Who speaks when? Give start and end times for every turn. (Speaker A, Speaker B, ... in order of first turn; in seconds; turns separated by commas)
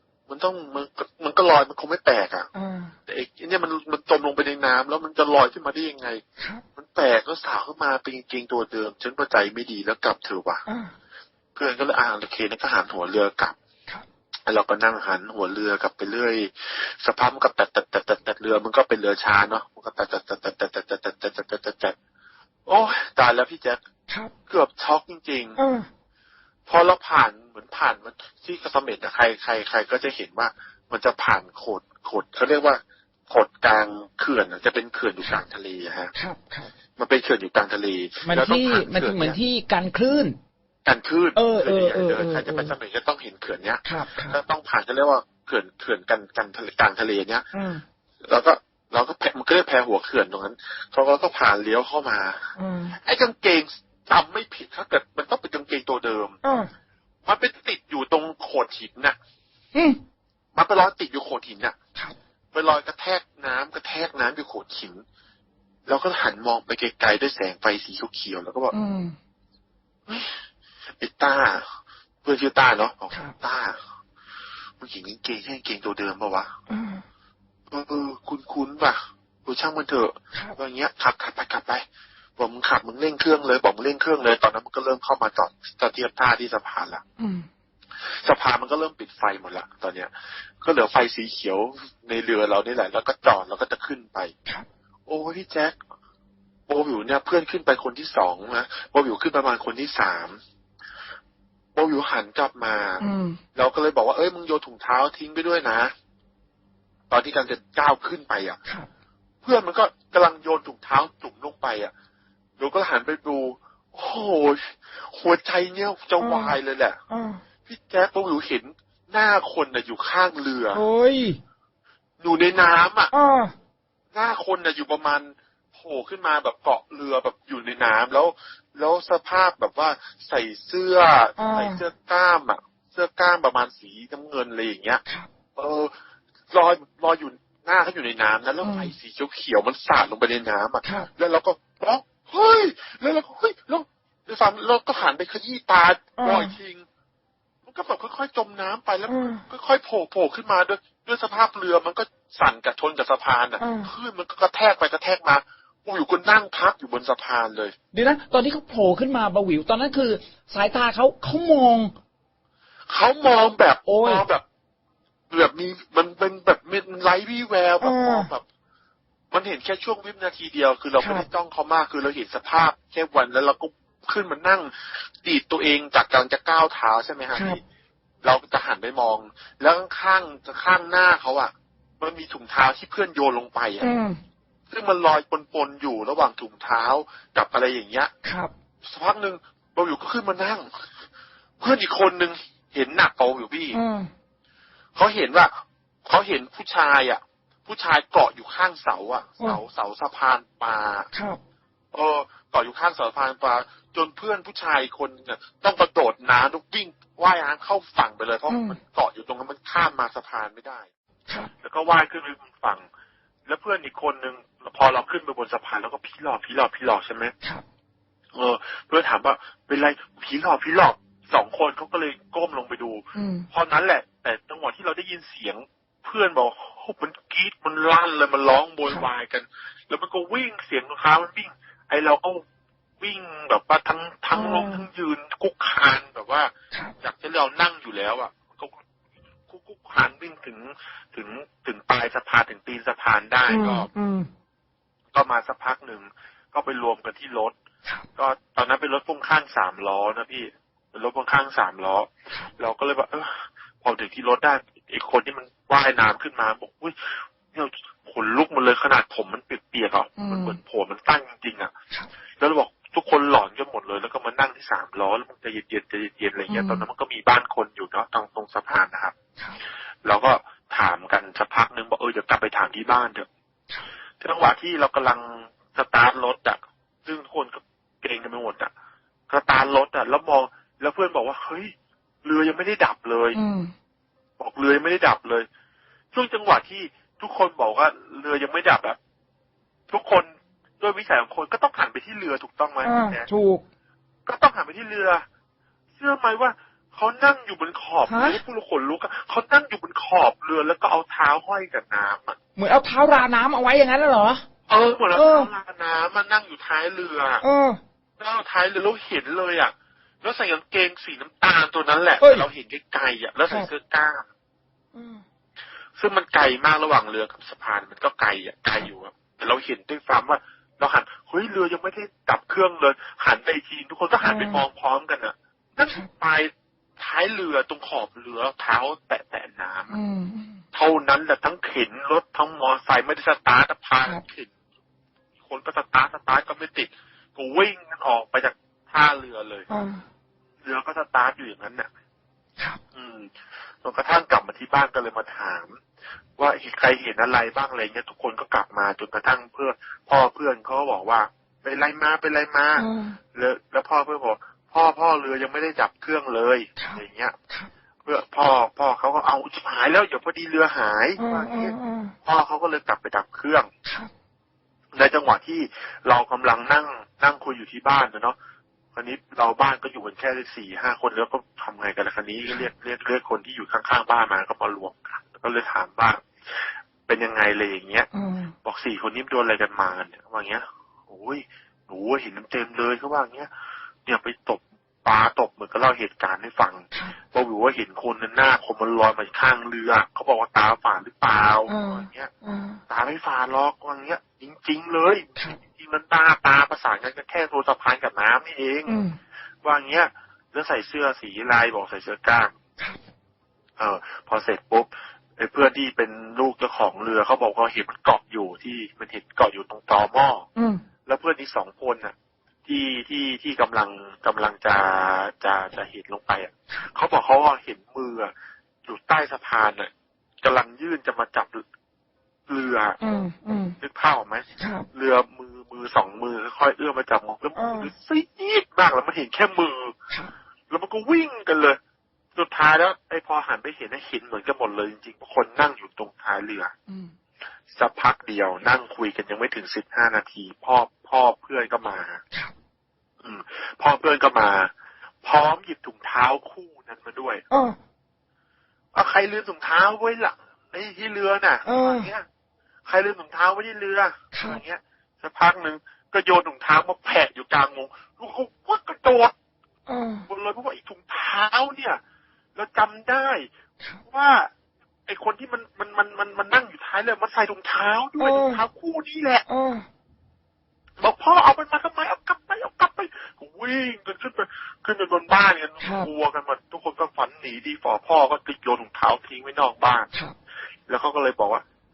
Speaker A: 0.3-2.5, Speaker B: 2.5-2.9, Speaker A: 3.1-6.2, Speaker B: 6.4-6.6, Speaker A: 6.8-10.6, Speaker B: 10.7-10.9, Speaker A: 11.5-13.6, Speaker A: 14.5-21.9, Speaker A: 22.6-23.8, Speaker A: 24.5-25.6, Speaker B: 25.6-25.9, Speaker A: 26.7-36.1, Speaker B: 36.1-36.7, Speaker A: 37.0-39.4, Speaker B: 38.2-40.4, Speaker A: 40.8-47.5, Speaker B: 41.4-42.7, Speaker B: 43.8-44.4, Speaker B: 47.5-47.8, Speaker A: 48.2-56.4, Speaker B: 52.6-53.0, Speaker B: 56.4-56.7, Speaker A: 57.2-59.1, Speaker B: 59.7-60.0, Speaker A: 60.5-61.8, Speaker A: 62.5-65.0, Speaker A: 65.9-68.7, Speaker B: 68.7-69.2, Speaker A: 70.1-70.4, Speaker A: 71.0-71.7, Speaker A: 72.2-73.8, Speaker A: 74.8-76.5, Speaker B: 76.7-77.0, Speaker A: 77.7-81.8, Speaker A: 82.4-87.0, Speaker B: 87.2-87.5, Speaker A: 88.0-90.1, Speaker A: 90.6-94.3, Speaker A: 95.1-95.8, Speaker A: 96.7-100.4, Speaker A: 101.8-103.0, Speaker B: 103.0-103.4, Speaker A: 103.5-105.9, Speaker A: 107.1-108.6, Speaker A: 109.4-111.9, Speaker A: 112.6-117.0, Speaker B: 116.2-116.6, Speaker B: 117.1-117.4, Speaker A: 117.7-120.8, Speaker B: 120.7-121.4, Speaker A: 122.2-123.1, Speaker B: 123.1-123.5, Speaker A: 124.1-135.0, Speaker B: 131.4-131.8, Speaker A: 135.6-135.9, Speaker A: 136.5-146.8, Speaker B: 138.6-138.9, Speaker B: 140.8-141.1, Speaker B: 146.2-146.6, Speaker A: 147.7-157.7, Speaker B: 149.1-149.4, Speaker B: 153.6-153.9, Speaker B: 157.9-161.9, Speaker A: 162.9-164.4, Speaker B: 163.9-164.2, Speaker A: 165.3-168.4, Speaker B: 167.8-168.3, Speaker A: 169.3-177.6, Speaker B: 171.0-171.3, Speaker B: 177.3-177.6, Speaker A: 178.2-183.9, Speaker B: 183.8-184.2, Speaker A: 184.7-188.1, Speaker B: 188.2-188.5, Speaker A: 188.8-190.7, Speaker A: 191.6-193.8, Speaker B: 193.7-194.1, Speaker A: 194.9-195.5, Speaker A: 196.1-201.1, Speaker B: 201.1-201.4, Speaker A: 201.9-210.9, Speaker B: 208.5-208.8, Speaker A: 211.6-212.8, Speaker A: 213.4-217.3, Speaker A: 218.3-232.4, Speaker B: 223.1-223.5, Speaker A: 233.0-236.5, Speaker B: 234.3-234.8, Speaker A: 237.0-238.8, Speaker A: 239.5-243.9, Speaker B: 243.5-244.3, Speaker A: 245.1-247.5, Speaker A: 248.2-261.7, Speaker B: 260.2-260.6, Speaker A: 262.4-269.1, Speaker B: 266.5-266.9, Speaker A: 270.0-273.3, Speaker A: 274.2-278.7, Speaker A: 279.3-281.7, Speaker A: 282.2-283.4, Speaker B: 283.3-283.7, Speaker A: 284.4-285.5, Speaker A: 286.1-289.0, Speaker A: 289.9-293.2, Speaker B: 292.8-293.6, Speaker A: 294.2-295.2, Speaker A: 296.0-302.4, Speaker B: 298.1-298.4, Speaker B: 302.6-304.4, Speaker A: 304.7-307.4, Speaker B: 305.1-305.5, Speaker B: 307.4-307.8, Speaker A: 308.2-314.2, Speaker B: 312.2-312.5, Speaker B: 314.9-315.2, Speaker A: 316.0-329.9, Speaker B: 324.2-324.6, Speaker B: 329.9-330.6, Speaker A: 330.7-334.5, Speaker A: 335.4-339.6, Speaker B: 339.7-340.0, Speaker A: 340.6-341.9, Speaker A: 342.9-343.3, Speaker A: 343.8-345.8, Speaker A: 346.4-357.4, Speaker B: 352.8-353.2, Speaker B: 356.8-357.7, Speaker A: 358.0-363.7, Speaker B: 361.2-362.1, Speaker B: 363.8-364.1, Speaker A: 364.9-368.4, Speaker A: 368.9-378.1, Speaker B: 378.1-378.5, Speaker A: 378.6-383.5, Speaker A: 384.0-392.3, Speaker B: 391.7-392.8, Speaker A: 392.9-399.0, Speaker B: 398.9-399.2, Speaker A: 399.6-402.5, Speaker A: 403.8-410.5, Speaker B: 410.6-410.8, Speaker A: 411.1-418.3, Speaker A: 418.8-419.9, Speaker A: 420.4-421.6, Speaker A: 422.5-423.0, Speaker B: 423.0-423.8, Speaker A: 423.8-429.9, Speaker B: 424.6-424.9, Speaker B: 427.6-427.9, Speaker A: 430.7-431.8, Speaker A: 432.3-436.7, Speaker B: 436.9-437.1, Speaker A: 437.7-442.2, Speaker A: 443.2-444.7, Speaker A: 445.2-447.4, Speaker B: 447.5-447.8, Speaker A: 448.9-452.2, Speaker B: 451.6-452.1, Speaker A: 452.9-459.3, Speaker B: 454.3-454.6, Speaker B: 459.9-460.2, Speaker A: 460.3-462.0, Speaker A: 462.6-463.5, Speaker A: 464.0-464.5, Speaker A: 465.1-469.4, Speaker B: 468.2-468.6, Speaker B: 469.5-469.9, Speaker A: 471.0-480.1, Speaker B: 475.8-476.1, Speaker A: 480.9-481.6